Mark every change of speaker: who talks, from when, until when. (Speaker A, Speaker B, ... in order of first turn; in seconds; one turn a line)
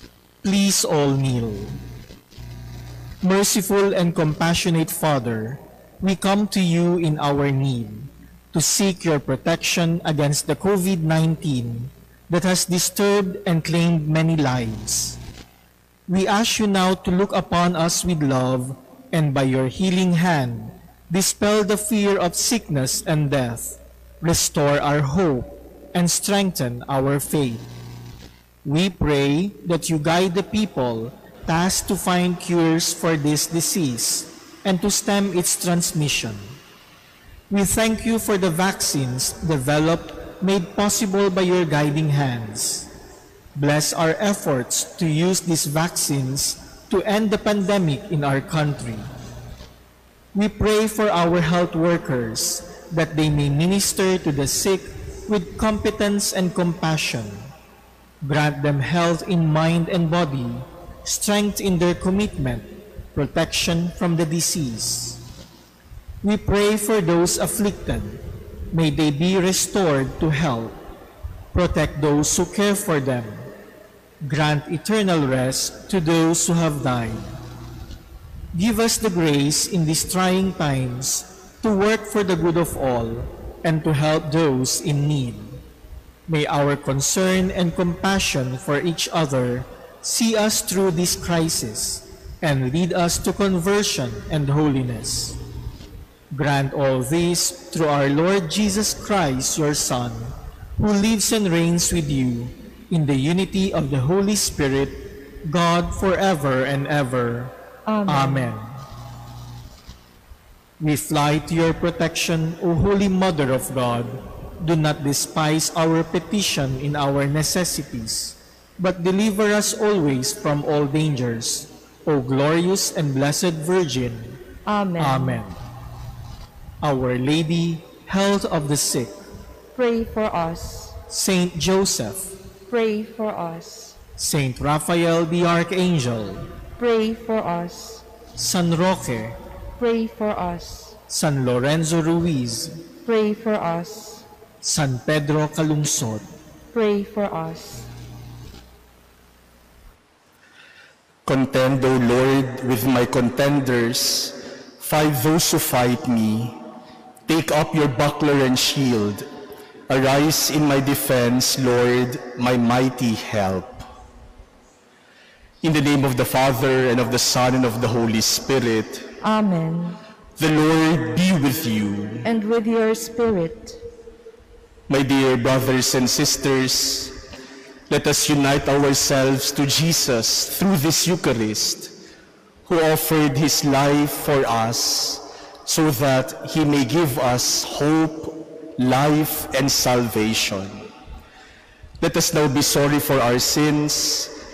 Speaker A: 0.4-1.8
Speaker A: 3.2-15.2
Speaker A: 16.1-27.7
Speaker A: 28.6-36.6
Speaker A: 37.5-42.9
Speaker A: 43.5-49.1
Speaker A: 50.3-57.5
Speaker A: 58.2-65.2
Speaker A: 66.2-70.8
Speaker A: 71.5-73.5
Speaker A: 74.2-77.4
Speaker A: 78.5-85.6
Speaker A: 86.3-95.4
Speaker A: 96.3-107.5
Speaker B: 107.9-108.5
Speaker A: 108.1-108.8
Speaker A: 110.8-124.4
Speaker B: 124.7-125.4
Speaker A: 125.0-125.6
Speaker A: 126.8-129.1
Speaker B: 129.8-131.0
Speaker A: 131.1-132.4
Speaker B: 132.7-134.0
Speaker A: 134.2-136.5
Speaker B: 136.8-138.1
Speaker A: 138.4-139.4
Speaker B: 139.8-141.0
Speaker A: 141.1-142.8
Speaker B: 143.1-144.3
Speaker A: 144.6-146.3
Speaker B: 146.7-147.9
Speaker C: 151.3-156.6
Speaker C: 157.3-159.3
Speaker C: 159.9-163.9
Speaker C: 165.6-169.2
Speaker B: 169.2-170.0
Speaker C: 170.4-172.3
Speaker B: 172.2-173.8
Speaker C: 174.9-177.3
Speaker C: 177.9-182.0
Speaker C: 182.7-190.9
Speaker C: 192.0-194.4